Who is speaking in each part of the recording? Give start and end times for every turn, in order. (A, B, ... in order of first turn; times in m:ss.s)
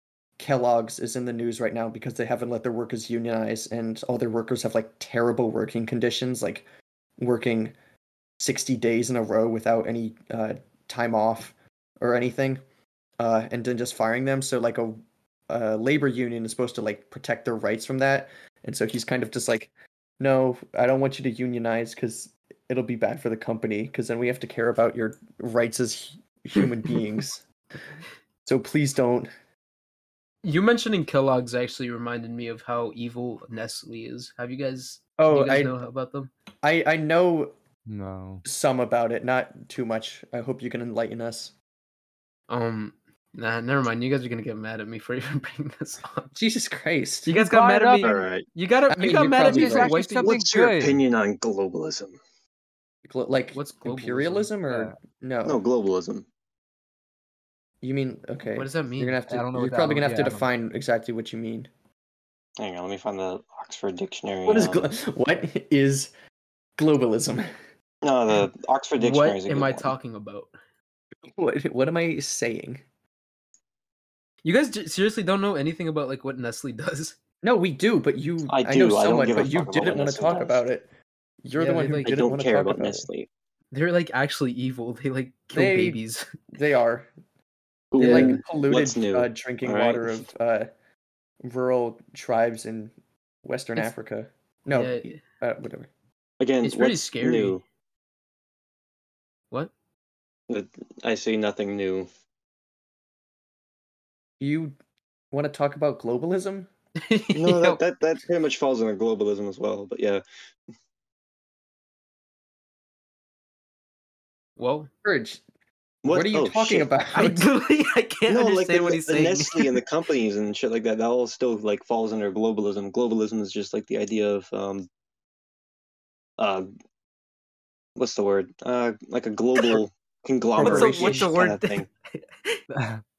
0:00.4-0:06.6 A
0:07.2-0:07.7 A
0:08.4-0:12.6 A
0:13.2-0:27.4 A
0:28.4-0:29.3 A
0:30.4-0:36.3 B
0:35.2-0:35.8 A
0:36.6-0:37.5 A
0:37.9-0:38.4 C
0:38.4-0:41.5 A
0:42.5-0:46.3 B
0:46.4-0:47.4 A
0:47.3-0:50.4 B
0:47.4-0:48.2 C
0:48.0-0:48.5 D
0:48.9-0:49.9 A
0:49.4-0:51.0 C
0:50.2-0:52.2 D
0:53.0-0:55.6 A
0:53.5-0:54.5 B
0:55.4-0:56.3 D
0:57.8-1:01.7 A
0:58.6-0:59.2 B
0:59.3-1:00.4 C
1:02.6-1:04.9 D
1:04.5-1:06.1 A
1:06.8-1:07.5 A
1:08.0-1:09.9 D
1:09.0-1:10.5 B
1:11.3-1:12.8 A
1:14.4-1:17.2 B
1:17.4-1:20.9 A
1:18.5-1:20.6 D
1:21.4-1:23.1 A
1:21.6-1:22.3 B
1:21.9-1:23.3 D
1:23.7-1:26.3 B
1:25.5-1:26.0 A
1:26.5-1:27.1 A
1:27.9-1:30.3 D
1:28.0-1:28.4 B
1:28.0-1:30.7 A
1:31.4-1:35.9 A
1:34.7-1:35.2 B
1:36.4-1:37.6 D
1:36.6-1:37.6 B
1:40.5-1:42.1 D
1:44.4-1:44.7 A
1:45.3-1:46.7 A
1:47.0-1:47.8 B
1:47.4-1:50.2 D
1:54.6-1:54.9 B
1:55.0-1:55.4 A
1:56.0-1:56.9 D
1:56.0-1:57.5 A
1:57.2-1:59.8 B
1:58.3-2:04.9 D
2:06.4-2:06.7 D
2:08.0-2:11.9 D
2:10.5-2:11.3 A
2:10.6-2:12.6 B
2:12.7-2:13.0 C